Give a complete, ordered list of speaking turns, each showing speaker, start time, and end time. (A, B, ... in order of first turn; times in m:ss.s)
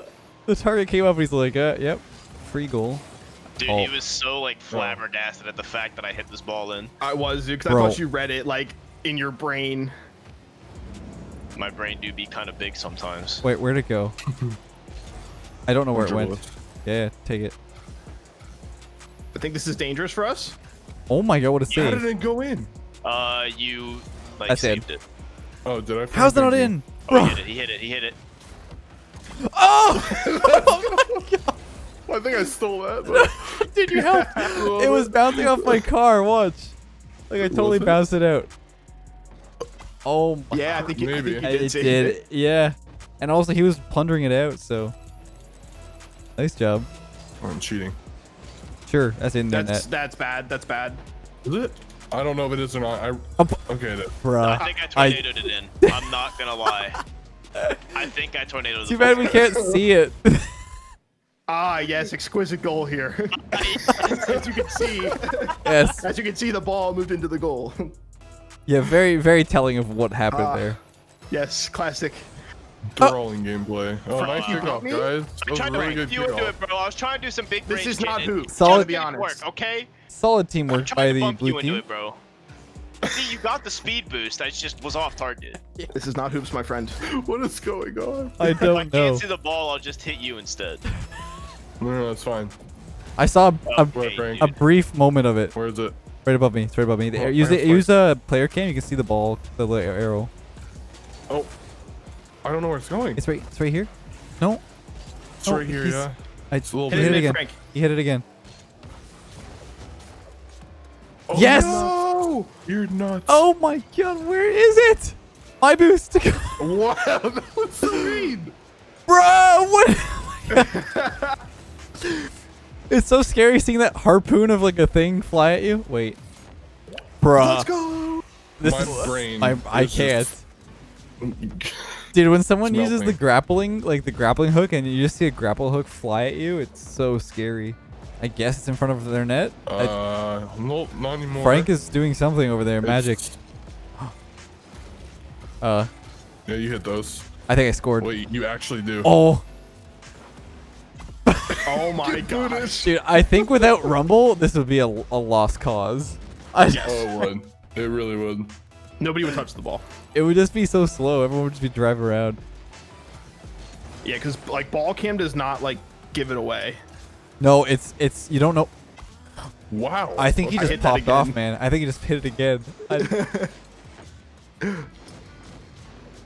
0:00.5-0:03.0 A
0:03.6-0:06.9 B
0:03.6-0:03.9 A
0:04.7-0:05.0 C
0:07.0-0:09.9 D
0:07.7-0:08.0 A
0:11.6-0:13.4 B
0:13.4-0:14.2 A
0:14.3-0:14.6 C
0:15.7-0:17.5 A
0:15.9-0:16.5 C
0:19.3-0:20.6 D
0:21.1-0:22.0 A
0:21.7-0:22.0 B
0:21.7-0:22.7 C
0:23.0-0:25.0 B
0:24.5-0:24.8 A
0:25.6-0:26.7 C
0:26.1-0:27.4 A
0:27.1-0:28.2 B
0:29.4-0:31.6 A
0:30.1-0:31.0 C
0:32.1-0:33.7 C
0:33.1-0:36.7 A
0:33.9-0:34.7 D
0:34.4-0:35.9 C
0:37.3-0:38.5 A
0:37.4-0:38.0 C
0:40.0-0:40.9 A
0:40.5-0:42.2 D
0:40.8-0:41.6 C
0:41.4-0:44.9 A
0:46.4-0:46.9 A
0:47.4-0:48.0 C
0:48.9-0:49.8 A
0:49.5-0:51.0 D
0:51.4-0:54.2 C
0:54.2-0:55.2 A
0:54.4-0:57.0 B
0:57.9-0:59.4 B
0:58.8-1:00.5 A
1:01.5-1:07.9 D
1:03.3-1:04.4 B
1:05.6-1:06.0 A
1:08.7-1:10.8 A
1:10.3-1:10.8 D
1:11.3-1:12.3 D
1:12.9-1:16.6 C
1:14.1-1:15.1 D
1:14.2-1:14.7 B
1:15.4-1:19.9 B
1:17.7-1:19.4 D
1:18.5-1:18.9 A
1:20.1-1:21.8 A
1:20.7-1:22.2 B
1:23.0-1:25.6 B
1:25.9-1:27.0 D
1:27.0-1:28.7 C
1:28.4-1:29.2 A
1:28.5-1:30.8 B
1:31.8-1:32.5 C
1:33.2-1:35.5 A
1:33.7-1:34.6 B
1:33.9-1:34.5 C
1:35.5-1:36.0 C
1:36.2-1:40.3 A
1:37.1-1:37.9 C
1:42.4-1:43.2 C
1:43.2-1:43.9 A
1:45.4-1:47.3 C
1:45.4-1:48.2 A
1:46.9-1:47.6 D
1:51.3-1:53.4 C
1:51.3-1:51.9 A
1:51.3-1:52.4 D
1:53.3-1:56.7 A
1:56.6-1:58.5 C
1:59.1-2:00.8 A
2:00.5-2:01.4 D
2:02.9-2:06.2 A
2:07.2-2:07.7 A
2:07.4-2:08.2 D
2:08.6-2:10.4 A
2:08.6-2:10.3 C
2:11.2-2:12.1 C
2:12.1-2:20.0 A
2:12.6-2:13.2 C
2:19.7-2:21.7 C
2:21.4-2:23.2 A
2:22.8-2:23.4 C
2:25.6-2:25.9 A
2:26.5-2:27.3 C
2:27.5-2:28.1 A
2:28.0-2:29.1 C
2:29.0-2:29.4 A
2:31.3-2:31.7 A
2:31.6-2:32.9 D
2:32.0-2:33.8 C
2:32.8-2:37.1 A
2:36.7-2:37.1 D
2:36.8-2:38.5 C
2:39.0-2:39.8 D
2:40.1-2:42.4 A
2:44.0-2:46.8 D
2:47.4-2:48.7 A
2:49.7-2:50.9 C
2:50.2-2:53.2 A
2:50.6-2:51.4 D
2:52.9-2:53.5 D